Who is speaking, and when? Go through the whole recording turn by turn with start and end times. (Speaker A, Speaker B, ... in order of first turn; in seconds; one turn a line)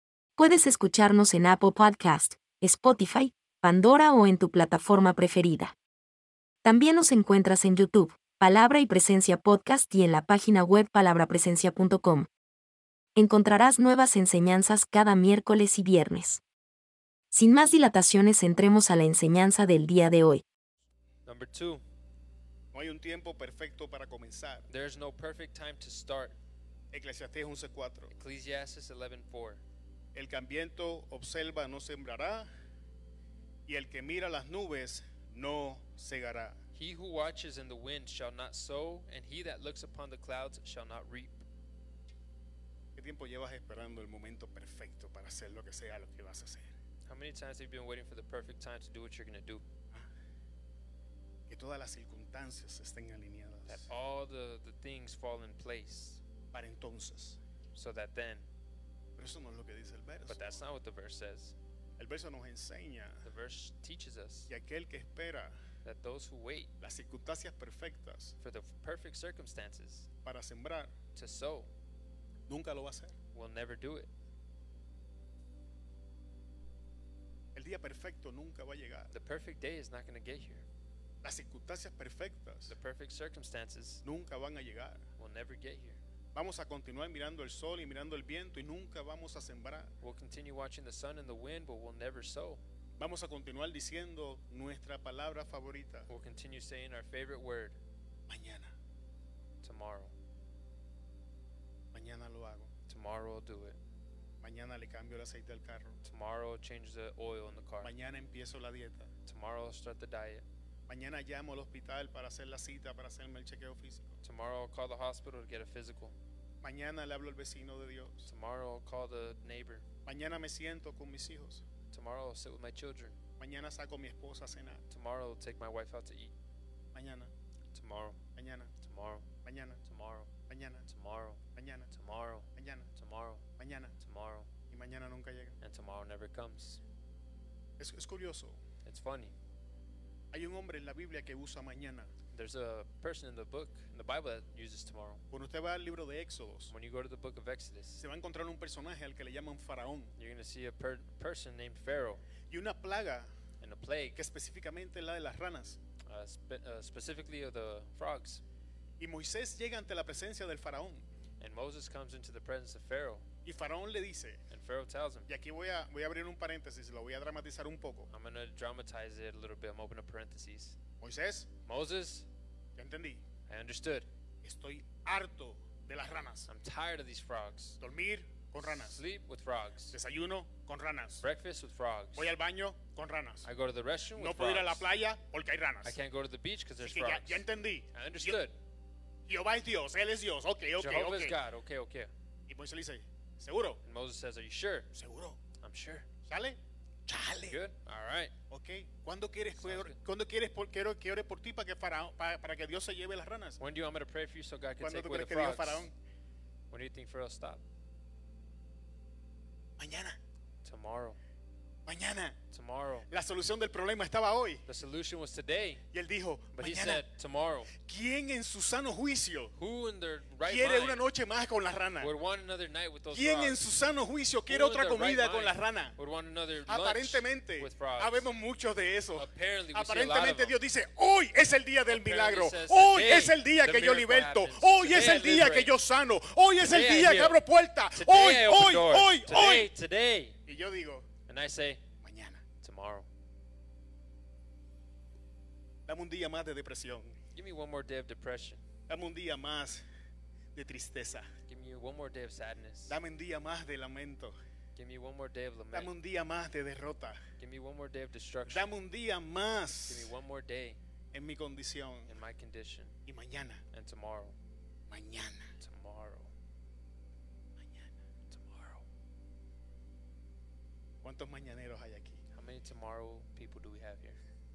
Speaker A: 0.4-5.8
Speaker A: 6.6-12.3
Speaker A: 13.2-16.4
Speaker A: 17.3-20.4
Speaker B: 21.3-21.8
Speaker C: 22.7-24.7
Speaker B: 24.7-26.4
Speaker C: 26.9-28.1
Speaker B: 28.1-29.6
Speaker C: 30.1-32.5
Speaker C: 33.7-36.6
Speaker B: 36.8-41.4
Speaker C: 43.0-46.7
Speaker B: 47.1-49.6
Speaker C: 51.5-53.9
Speaker B: 53.7-56.2
Speaker C: 56.5-57.4
Speaker B: 57.7-58.5
Speaker C: 59.2-60.4
Speaker B: 60.3-61.6
Speaker C: 62.0-63.3
Speaker B: 63.2-64.5
Speaker C: 64.5-65.5
Speaker B: 65.8-66.7
Speaker C: 66.8-68.3
Speaker B: 68.4-70.1
Speaker C: 70.2-70.9
Speaker B: 71.2-71.7
Speaker C: 72.5-73.2
Speaker B: 73.3-74.1
Speaker C: 77.5-79.1
Speaker B: 79.1-80.7
Speaker C: 81.2-82.7
Speaker B: 82.7-84.0
Speaker C: 84.0-85.0
Speaker B: 85.2-86.0
Speaker C: 86.3-89.9
Speaker B: 90.0-92.6
Speaker C: 93.0-96.1
Speaker B: 96.1-97.8
Speaker C: 98.3-98.7
Speaker B: 99.6-100.1
Speaker C: 101.9-102.7
Speaker B: 102.9-103.8
Speaker C: 104.4-106.0
Speaker B: 106.0-107.9
Speaker C: 107.8-109.1
Speaker B: 109.3-110.5
Speaker C: 110.9-114.2
Speaker B: 114.2-116.2
Speaker C: 116.6-118.3
Speaker B: 118.3-119.8
Speaker C: 120.1-121.6
Speaker B: 121.9-123.2
Speaker C: 123.4-124.8
Speaker B: 124.9-126.3
Speaker C: 126.9-127.3
Speaker B: 127.7-128.2
Speaker C: 128.4-128.7
Speaker B: 128.8-129.2
Speaker C: 129.4-129.8
Speaker B: 129.8-130.3
Speaker C: 130.5-130.9
Speaker B: 130.9-133.4
Speaker C: 131.6-131.9
Speaker C: 132.6-132.9
Speaker C: 133.6-133.9
Speaker B: 134.0-134.5
Speaker C: 134.7-135.6
Speaker B: 135.6-136.8
Speaker C: 137.8-138.6
Speaker B: 138.8-139.3
Speaker C: 140.3-142.1
Speaker B: 142.3-145.2
Speaker C: 145.3-146.7
Speaker B: 146.7-148.0
Speaker C: 148.0-150.1
Speaker B: 150.2-152.2
Speaker C: 152.5-153.3
Speaker B: 153.6-154.2
Speaker C: 154.2-155.8
Speaker B: 156.1-158.4
Speaker C: 159.0-161.1
Speaker B: 161.4-163.2
Speaker C: 163.4-164.4
Speaker B: 164.5-165.3
Speaker C: 165.3-168.1
Speaker B: 168.1-170.8
Speaker C: 171.0-171.5
Speaker B: 171.7-172.3
Speaker C: 172.8-173.2
Speaker B: 173.5-174.1
Speaker C: 174.4-176.5
Speaker B: 176.5-177.8
Speaker C: 177.8-179.0
Speaker B: 178.6-180.0
Speaker C: 179.9-181.2
Speaker B: 181.2-182.3
Speaker C: 182.2-183.4
Speaker B: 183.4-184.9
Speaker C: 184.2-186.0
Speaker B: 185.8-188.6
Speaker C: 186.8-188.4
Speaker C: 189.3-191.4
Speaker B: 190.8-192.1
Speaker C: 192.5-193.8
Speaker B: 193.8-194.9
Speaker C: 194.9-195.4
Speaker B: 195.6-196.1
Speaker C: 196.3-197.6
Speaker B: 197.5-198.3
Speaker C: 198.5-203.6
Speaker B: 199.6-200.0
Speaker B: 203.6-205.9
Speaker C: 204.8-205.9
Speaker B: 206.7-207.6
Speaker C: 209.8-210.2
Speaker B: 210.6-211.2
Speaker C: 211.9-212.4
Speaker B: 212.5-213.1
Speaker C: 213.1-214.6
Speaker B: 214.7-215.8
Speaker C: 215.9-217.1
Speaker B: 216.5-217.8
Speaker C: 217.8-219.5
Speaker B: 219.5-221.0
Speaker C: 220.4-222.1
Speaker B: 222.0-223.6
Speaker C: 223.1-226.0
Speaker B: 224.5-228.3
Speaker C: 226.7-239.7
Speaker B: 229.2-230.6
Speaker B: 231.9-235.8
Speaker B: 236.6-237.4
Speaker B: 237.9-240.4
Speaker C: 240.5-241.1
Speaker B: 241.3-241.8
Speaker C: 242.0-242.4
Speaker B: 242.6-243.1
Speaker C: 245.9-247.2
Speaker B: 247.3-248.6
Speaker C: 248.9-249.8
Speaker C: 250.5-251.3
Speaker B: 251.5-253.0
Speaker C: 252.9-254.4
Speaker B: 254.8-255.9
Speaker C: 255.7-257.2
Speaker B: 257.4-258.7
Speaker C: 258.5-260.1
Speaker B: 259.9-260.8
Speaker C: 261.1-262.1
Speaker B: 262.1-262.9
Speaker C: 263.1-263.6
Speaker B: 263.7-264.4
Speaker C: 264.9-265.5
Speaker B: 265.6-266.3
Speaker C: 267.6-267.9
Speaker B: 268.3-268.8
Speaker C: 271.0-272.2
Speaker B: 272.3-274.2